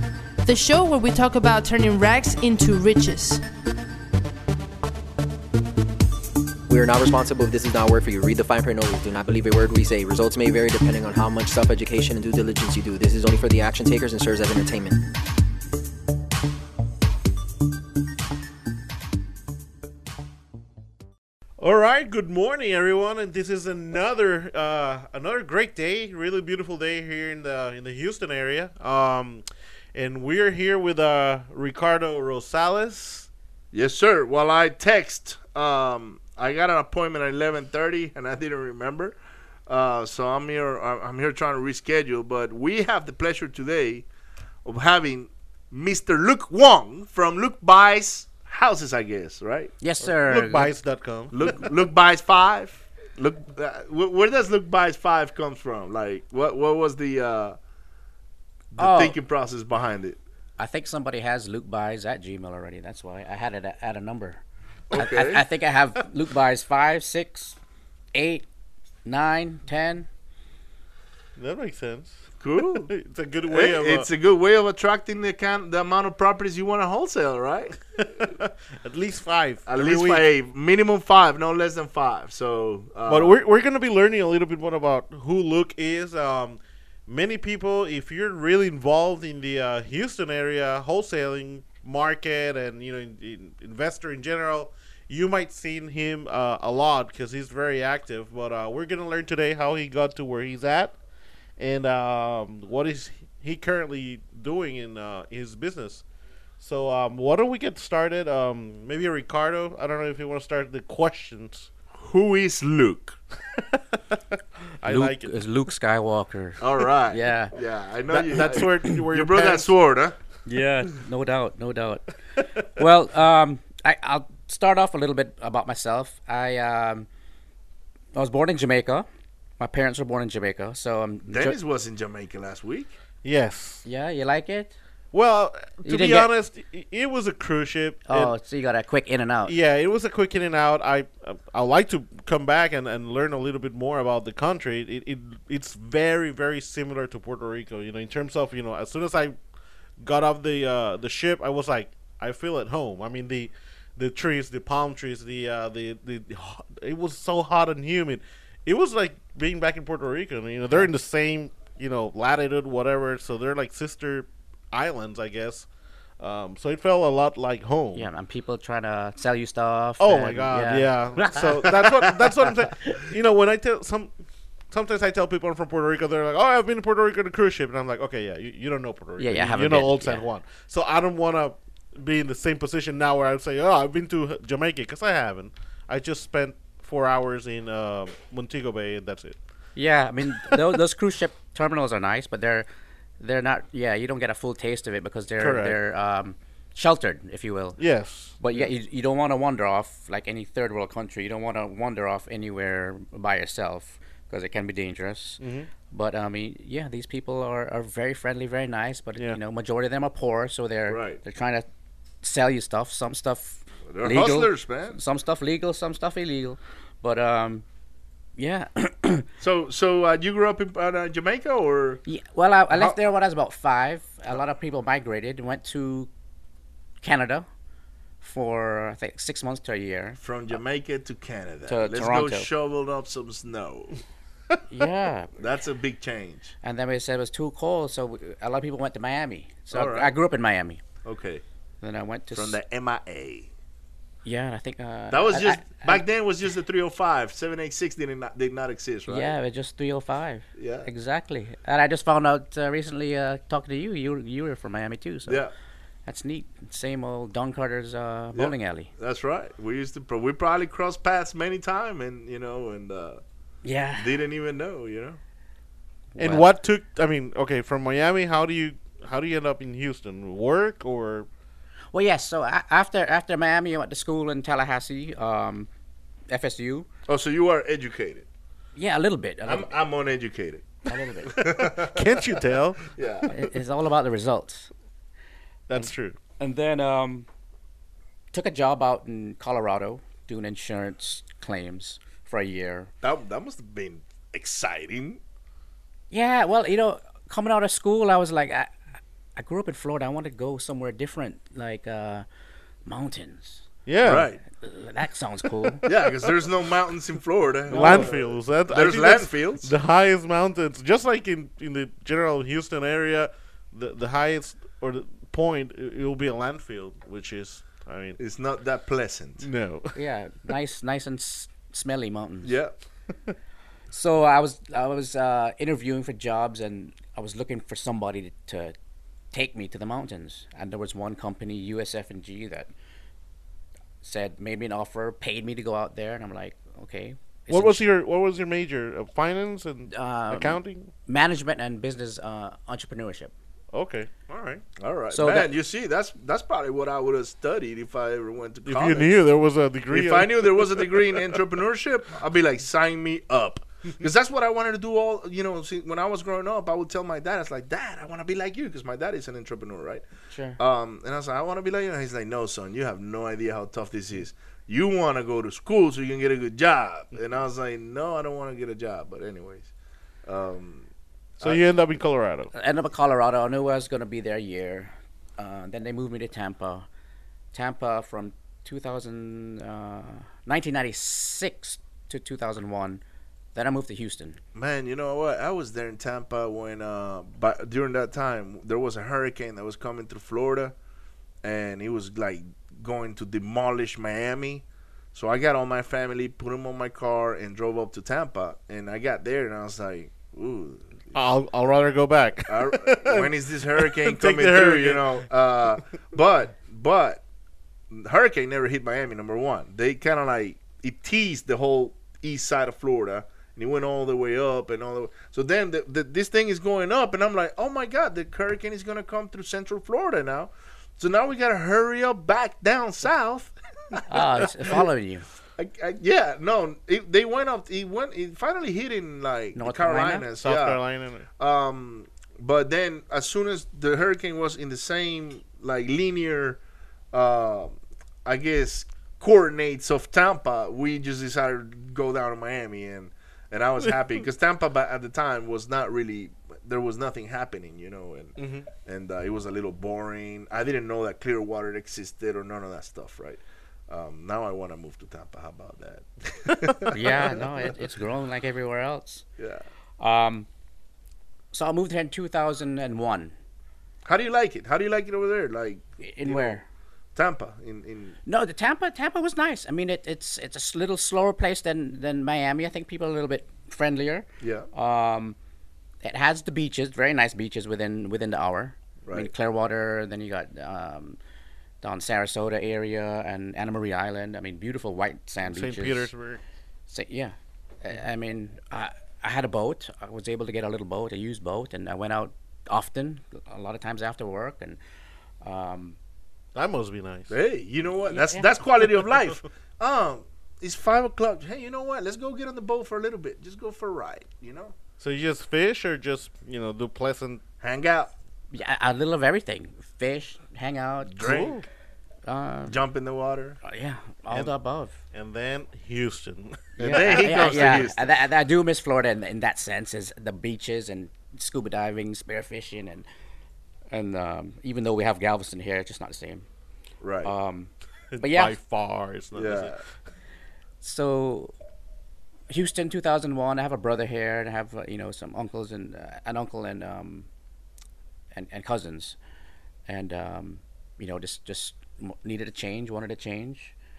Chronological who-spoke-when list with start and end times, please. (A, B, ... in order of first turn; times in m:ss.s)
0:00.4-0:03.4 A
0:06.7-0:15.0 B
0:21.6-0:33.3 C
0:33.7-0:44.0 D
0:44.6-0:49.7 D
0:49.8-0:50.7 E
0:50.0-0:51.4 C
0:51.3-0:57.6 D
0:58.7-1:00.2 D
0:58.8-0:59.2 E
1:00.6-1:04.4 E
1:04.9-1:05.4 D
1:04.9-1:07.6 E
1:08.1-1:08.4 E
1:09.0-1:10.1 E
1:11.4-1:12.3 C
1:12.4-1:12.9 D
1:12.9-1:14.1 C
1:13.5-1:17.8 D
1:18.0-1:20.2 C
1:19.6-1:23.4 D
1:23.1-1:41.0 C
1:41.6-1:46.0 C
1:46.6-1:51.7 C
1:52.0-1:53.2 D
1:53.6-1:54.2 C
1:54.8-1:55.3 C
1:54.8-1:57.6 E
1:56.6-2:00.2 D
1:58.1-1:59.7 C
1:58.3-1:59.0 E
2:00.4-2:07.1 E
2:08.1-2:09.1 E
2:09.6-2:11.6 E
2:11.3-2:12.9 D
2:13.2-2:13.8 C
2:13.8-2:14.7 E
2:15.1-2:18.3 C
2:15.8-2:16.3 E
2:18.1-2:19.5 E
2:19.4-2:29.4 C
2:30.0-2:45.7 C
2:46.2-2:48.1 C
2:47.9-2:53.0 E
2:50.0-2:54.1 C
2:54.7-3:09.4 C
2:59.2-3:00.2 E
3:09.8-3:12.7 E
3:13.2-3:17.8 E
3:15.4-3:15.8 C
3:17.8-3:18.6 C
3:18.4-3:31.7 E
3:25.4-3:25.7 C
3:30.9-3:31.2 D
3:32.2-3:37.6 E
3:33.9-3:35.0 D
3:38.4-3:39.3 E
3:39.4-3:42.0 D
3:42.0-3:46.1 E
3:47.0-3:47.5 E
3:48.2-3:50.6 E
3:50.2-3:54.0 D
3:51.6-3:52.5 E
3:54.7-3:55.4 E
3:55.4-3:56.5 D
3:56.6-4:00.8 E
3:59.7-4:00.1 D
4:01.0-4:01.4 D
4:01.8-4:02.6 E
4:02.3-4:03.5 D
4:04.2-4:06.0 E
4:05.1-4:09.3 D
4:09.1-4:15.4 E
4:10.6-4:10.9 D
4:15.2-4:15.5 D
4:16.0-4:18.9 E
4:18.3-4:23.2 D
4:23.6-4:24.2 E
4:24.0-4:25.2 D
4:26.1-4:26.4 E
4:26.2-4:31.3 C
4:31.9-4:35.7 E
4:36.3-4:36.9 E
4:37.1-4:38.2 D
4:38.8-4:39.8 E
4:39.4-4:42.4 D
4:40.9-4:41.4 E
4:41.8-4:43.3 C
4:42.9-4:43.3 D
4:43.3-4:44.7 E
4:45.7-4:46.2 C
4:46.4-4:47.3 E
4:48.3-4:52.9 E
4:53.0-4:55.2 D
4:56.1-4:58.7 E
4:59.4-5:02.2 E
5:02.8-5:03.6 E
5:03.8-5:04.3 C
5:04.0-5:04.4 D
5:04.5-5:05.8 E
5:05.6-5:06.0 C
5:05.8-5:09.7 D
5:07.7-5:08.2 E
5:07.7-5:18.2 C
5:18.2-5:19.5 D
5:19.4-5:20.0 C
5:19.9-5:22.6 E
5:22.4-5:22.7 D
5:23.9-5:28.7 E
5:29.3-5:32.7 E
5:34.0-5:37.8 E
5:37.5-5:40.9 C
5:39.9-5:43.3 E
5:43.7-5:44.6 C
5:44.8-5:49.1 D
5:45.1-5:45.5 E
5:48.6-5:51.3 C
5:49.9-6:00.0 D
6:00.3-6:00.6 E
6:00.6-6:09.7 D
6:10.2-6:10.9 D
6:11.4-6:12.5 C
6:12.5-6:16.8 E
6:17.5-6:23.0 E
6:23.5-6:24.4 E
6:24.5-6:30.7 D
6:31.4-6:41.0 D
6:41.1-6:45.2 C
6:42.5-6:47.2 D
6:47.9-7:04.3 D
7:04.1-7:05.3 E
7:05.6-7:10.8 D
7:09.6-7:10.3 E
7:10.4-7:11.2 C
7:11.4-7:16.6 D
7:17.1-7:37.4 D
7:28.4-7:28.6 C
7:36.9-7:39.2 E
7:39.4-7:39.6 D
7:40.0-7:40.5 E
7:41.5-7:43.3 E
7:44.0-7:46.6 D
7:46.0-7:46.6 E
7:47.1-7:48.2 D
7:48.2-7:55.4 E
7:54.4-7:54.7 D
7:56.0-8:01.2 E
8:01.8-8:06.1 E
8:05.4-8:06.4 C
8:06.9-8:14.8 E
8:15.4-8:16.0 E
8:16.5-8:17.3 C
8:17.3-8:24.7 D
8:18.1-8:18.5 E
8:25.0-8:27.4 C
8:27.6-8:28.1 D
8:28.5-8:31.4 E
8:31.0-8:31.6 D
8:31.2-8:31.6 C
8:32.2-8:32.8 E
8:32.7-8:33.6 D
8:33.6-8:35.0 E
8:35.1-8:37.4 C
8:36.8-8:38.1 D
8:36.8-8:43.0 E
8:43.9-8:46.4 E
8:47.0-8:47.3 D
8:47.2-8:48.5 E
8:48.1-8:49.8 C
8:49.3-8:49.8 D
8:50.8-8:51.5 E
8:52.5-8:57.3 E
8:58.3-8:59.2 E
8:59.9-9:03.7 E